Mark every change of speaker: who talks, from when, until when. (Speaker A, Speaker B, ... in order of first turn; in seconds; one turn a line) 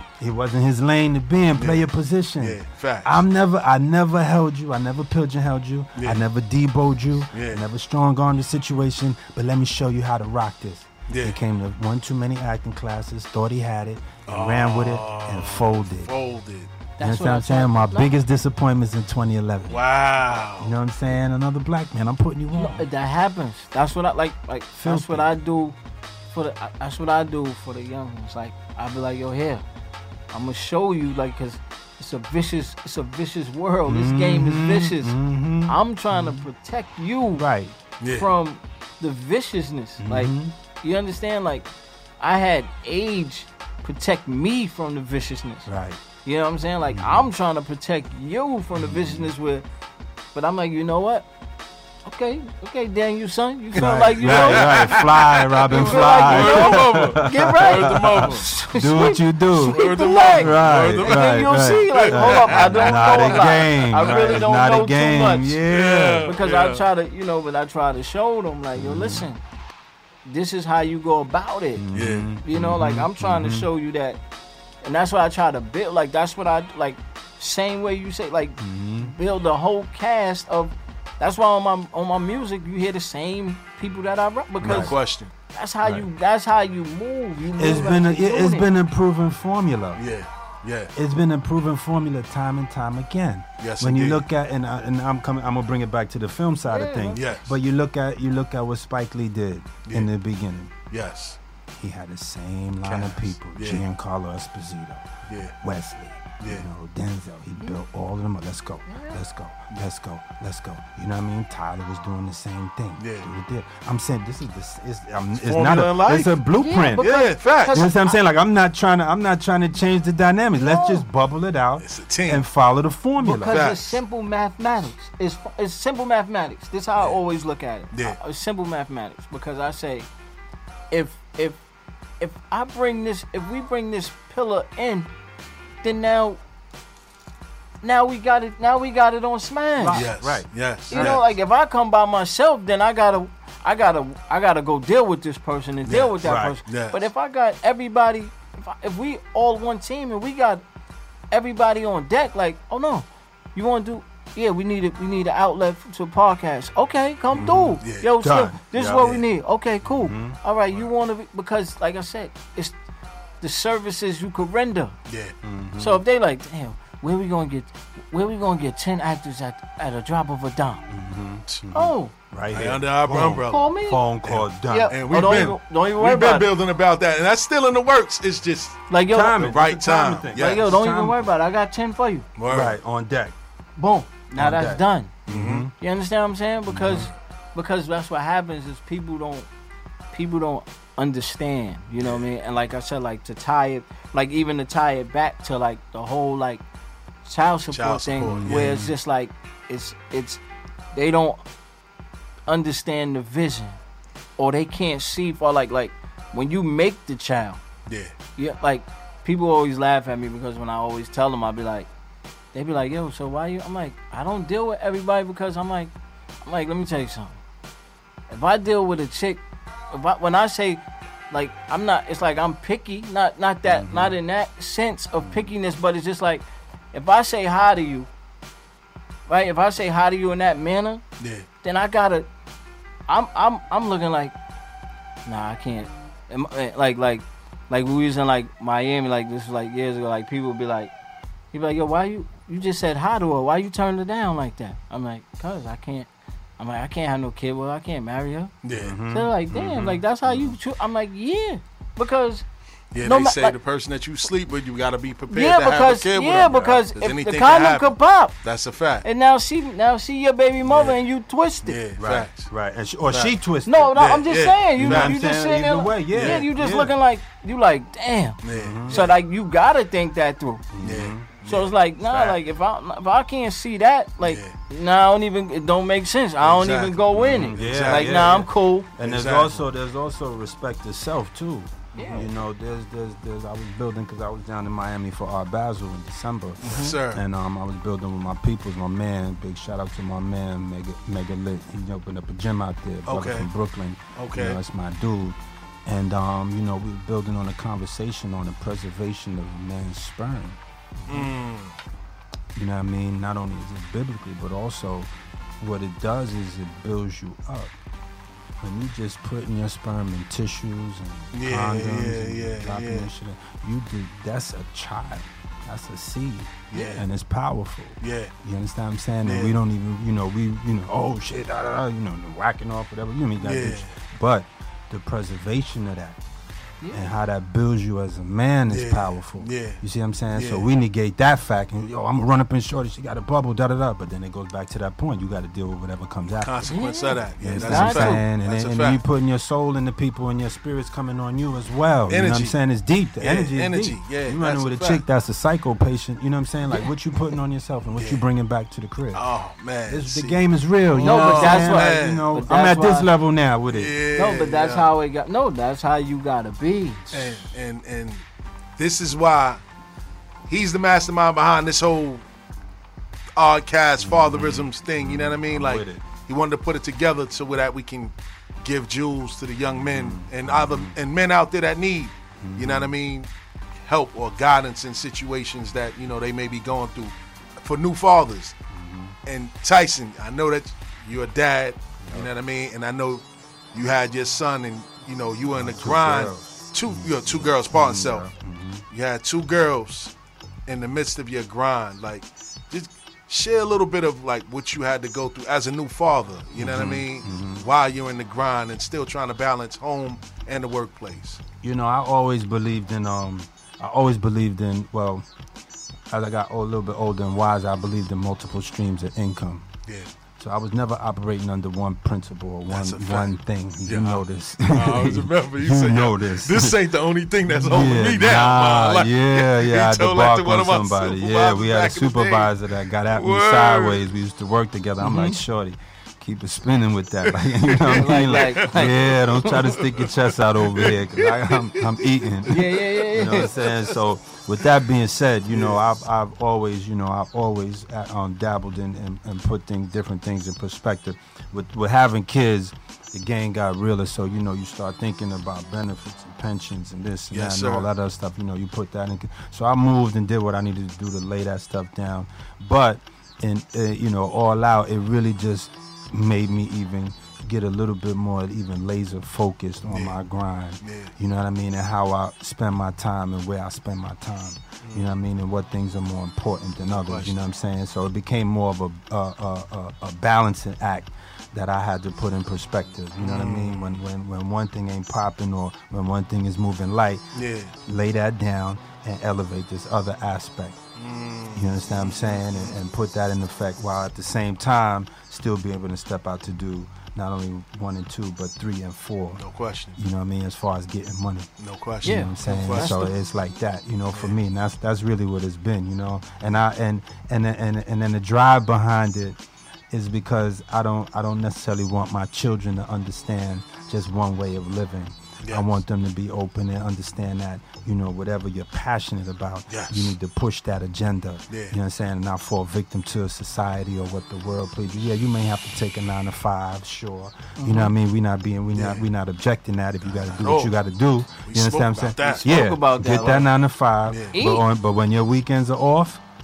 Speaker A: 0.2-16.1
Speaker B: 1.5-1.9
Speaker B: 2.4-3.2
Speaker B: 6.0-6.2
Speaker B: 7.3-7.6
Speaker B: 11.1-11.4
Speaker B: 14.3-16.7
Speaker C: 17.0-18.1
Speaker A: 17.0-19.8
Speaker B: 19.7-20.7
Speaker A: 20.6-22.9
Speaker C: 22.5-25.8
Speaker A: 24.8-25.3
Speaker C: 26.3-29.6
Speaker C: 30.3-37.5
Speaker A: 33.9-36.4
Speaker A: 37.4-37.8
Speaker B: 38.0-38.3
Speaker C: 38.1-41.7
Speaker A: 40.0-40.5
Speaker C: 42.2-45.7
Speaker A: 45.6-46.0
Speaker C: 46.2-49.6
Speaker A: 46.9-47.3
Speaker A: 48.8-49.3
Speaker C: 50.3-51.3
Speaker C: 52.0-55.1
Speaker A: 53.7-66.3
Speaker B: 53.8-58.5
Speaker C: 55.7-65.6
Speaker B: 59.6-64.5
Speaker B: 65.7-66.8
Speaker C: 66.2-69.4
Speaker A: 68.8-69.3
Speaker C: 70.2-71.8
Speaker A: 71.8-73.7
Speaker B: 71.9-72.3
Speaker C: 72.4-74.2
Speaker C: 74.8-84.9
Speaker A: 78.6-79.1
Speaker A: 84.6-84.9
Speaker B: 84.6-85.3
Speaker C: 85.5-88.7
Speaker A: 87.5-90.0
Speaker B: 89.9-90.9
Speaker A: 90.9-100.7
Speaker B: 93.6-94.2
Speaker C: 96.7-97.2
Speaker B: 97.1-97.5
Speaker B: 100.9-101.4
Speaker A: 101.7-105.0
Speaker B: 102.8-103.8
Speaker B: 105.3-105.5
Speaker A: 105.6-123.7
Speaker B: 106.4-106.7
Speaker C: 108.9-109.2
Speaker B: 113.0-113.3
Speaker B: 115.4-116.4
Speaker C: 116.6-118.2
Speaker B: 117.0-117.8
Speaker C: 120.6-121.0
Speaker B: 121.8-122.5
Speaker C: 123.2-130.1
Speaker B: 123.4-124.0
Speaker B: 127.9-128.2
Speaker C: 130.9-131.6
Speaker C: 132.2-135.1
Speaker C: 135.8-136.4
Speaker C: 137.8-140.1
Speaker A: 139.8-141.2
Speaker B: 139.9-141.2
Speaker C: 140.9-150.6
Speaker B: 145.8-147.0
Speaker A: 146.2-146.6
Speaker C: 151.3-162.7
Speaker A: 157.3-159.2
Speaker B: 157.3-158.1
Speaker A: 159.8-160.4
Speaker C: 163.4-164.9
Speaker B: 165.1-165.3
Speaker A: 165.4-166.0
Speaker C: 165.8-170.8
Speaker A: 170.9-175.5
Speaker C: 171.7-172.1
Speaker B: 172.5-173.7
Speaker C: 173.5-174.0
Speaker B: 174.2-178.8
Speaker C: 174.7-176.5
Speaker C: 178.9-179.6
Speaker A: 179.1-181.3
Speaker B: 179.4-180.7
Speaker C: 180.3-182.3
Speaker B: 182.4-182.8
Speaker A: 182.5-183.3
Speaker C: 183.8-185.1
Speaker A: 184.3-185.7
Speaker B: 185.3-185.7
Speaker C: 185.8-189.5
Speaker A: 186.7-187.1
Speaker C: 190.1-196.6
Speaker C: 197.2-200.4
Speaker B: 197.7-198.8
Speaker A: 198.3-198.9
Speaker C: 200.9-201.4
Speaker C: 202.5-203.8
Speaker C: 204.4-207.6
Speaker B: 207.9-208.1
Speaker C: 208.4-211.9
Speaker C: 212.5-215.9
Speaker C: 216.4-217.4
Speaker C: 218.3-228.1
Speaker A: 223.6-224.2
Speaker A: 225.2-225.5
Speaker C: 229.3-231.0
Speaker B: 231.2-231.5
Speaker C: 231.6-232.3
Speaker C: 233.1-234.3
Speaker C: 235.2-240.9
Speaker C: 241.5-248.5
Speaker B: 248.6-249.0
Speaker A: 248.8-250.6
Speaker C: 249.1-252.4
Speaker B: 252.9-259.1
Speaker C: 253.0-253.6
Speaker C: 255.3-258.3
Speaker C: 259.0-261.8
Speaker B: 260.6-261.0
Speaker B: 261.6-262.5
Speaker A: 262.0-264.1
Speaker B: 263.1-263.3
Speaker C: 263.6-270.6
Speaker B: 263.9-265.2
Speaker A: 264.8-266.9
Speaker B: 266.1-266.4
Speaker B: 268.4-269.2
Speaker A: 268.5-269.0
Speaker A: 270.7-271.3
Speaker B: 270.8-272.4
Speaker C: 271.4-278.9
Speaker B: 274.2-274.5
Speaker B: 276.4-278.5
Speaker A: 277.1-301.3
Speaker B: 279.0-279.6
Speaker C: 281.9-282.2
Speaker B: 281.9-282.3
Speaker C: 286.6-286.9
Speaker B: 286.6-287.2
Speaker B: 293.1-293.5
Speaker B: 294.1-294.6
Speaker B: 301.1-301.7
Speaker A: 302.5-307.7
Speaker A: 308.6-326.2
Speaker B: 311.3-313.1
Speaker B: 316.7-317.1
Speaker B: 318.0-318.3
Speaker B: 319.2-319.5
Speaker B: 323.4-323.9
Speaker C: 326.8-327.1
Speaker A: 326.9-336.8
Speaker B: 328.7-330.7
Speaker B: 336.4-339.0
Speaker C: 336.7-338.2
Speaker A: 337.4-349.2
Speaker B: 342.1-342.6
Speaker B: 343.2-345.0
Speaker B: 347.9-348.2
Speaker B: 349.1-352.3
Speaker A: 349.9-354.0
Speaker C: 351.0-353.1
Speaker B: 353.7-354.9
Speaker C: 354.1-357.4
Speaker B: 357.1-358.2
Speaker B: 358.8-359.6
Speaker B: 360.5-362.2
Speaker B: 363.4-373.3
Speaker A: 364.0-366.0
Speaker A: 369.7-370.9
Speaker A: 372.4-372.9
Speaker B: 373.8-378.6
Speaker A: 378.7-379.1
Speaker B: 379.2-388.3
Speaker A: 382.0-382.3
Speaker A: 385.5-388.8
Speaker B: 388.9-390.1
Speaker B: 390.7-401.4
Speaker A: 396.6-397.6
Speaker A: 401.6-405.2
Speaker A: 406.1-409.7
Speaker A: 410.4-416.8
Speaker B: 412.7-413.3
Speaker B: 413.8-422.6
Speaker A: 417.5-477.2
Speaker B: 423.1-424.1
Speaker C: 425.0-425.4
Speaker B: 427.3-433.9
Speaker C: 427.9-429.0
Speaker C: 432.5-433.5
Speaker B: 435.5-435.8
Speaker B: 447.3-447.9
Speaker B: 459.9-460.2
Speaker B: 460.8-461.1
Speaker B: 464.8-465.1
Speaker B: 466.9-467.4
Speaker B: 473.2-474.0
Speaker B: 477.3-477.7
Speaker A: 477.8-480.8
Speaker B: 480.9-482.7
Speaker A: 481.5-489.4
Speaker B: 489.4-490.0
Speaker A: 490.0-491.5
Speaker B: 491.6-493.0
Speaker C: 492.0-493.1
Speaker A: 492.0-499.4
Speaker B: 494.1-494.4
Speaker A: 499.9-526.2
Speaker B: 505.4-505.7
Speaker B: 509.7-510.1
Speaker B: 511.5-511.8
Speaker C: 517.6-517.9
Speaker B: 518.7-519.0
Speaker B: 520.0-520.7
Speaker B: 521.4-522.5
Speaker C: 522.4-523.5
Speaker B: 524.1-524.4
Speaker C: 524.3-524.6